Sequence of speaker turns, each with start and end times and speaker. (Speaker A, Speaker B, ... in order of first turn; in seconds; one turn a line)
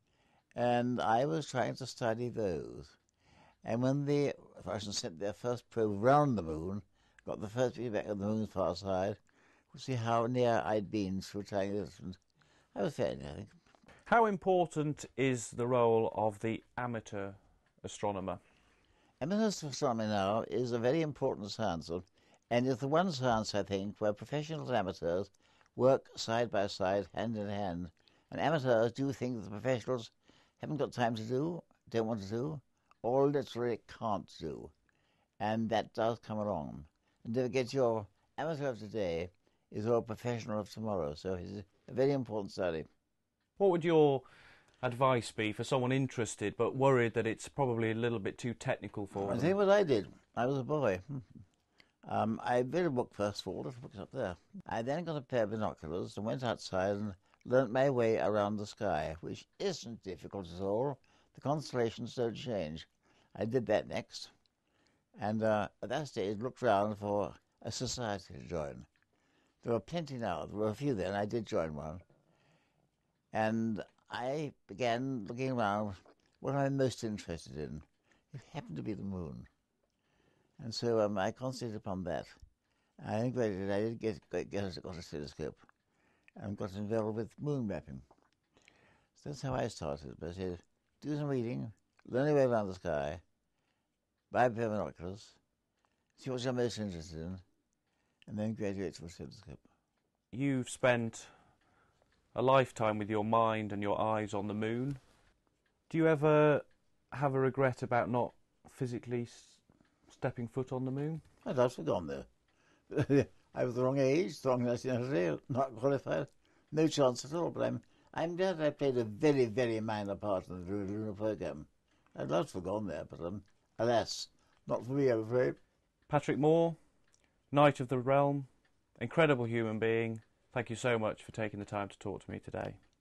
Speaker A: 0.6-3.0
Speaker A: 3.6-9.2
Speaker A: 9.7-12.2
Speaker A: 12.8-13.5
Speaker B: 14.1-18.4
Speaker A: 19.2-34.7
Speaker A: 35.4-42.9
Speaker B: 43.6-44.2
Speaker B: 44.8-49.5
Speaker A: 49.1-51.3
Speaker A: 52.1-64.3
Speaker A: 65.2-68.9
Speaker A: 69.6-72.0
Speaker A: 73.3-79.5
Speaker A: 80.6-82.3
Speaker A: 83.0-85.6
Speaker A: 86.4-88.0
Speaker A: 89.2-93.2
Speaker A: 94.3-95.4
Speaker A: 96.2-97.4
Speaker A: 98.3-99.6
Speaker B: 100.3-101.3
Speaker B: 102.3-105.0
Speaker B: 105.9-111.2
Speaker A: 111.4-112.3
Speaker A: 112.9-125.6
Speaker B: 126.1-126.8
Speaker B: 127.5-132.8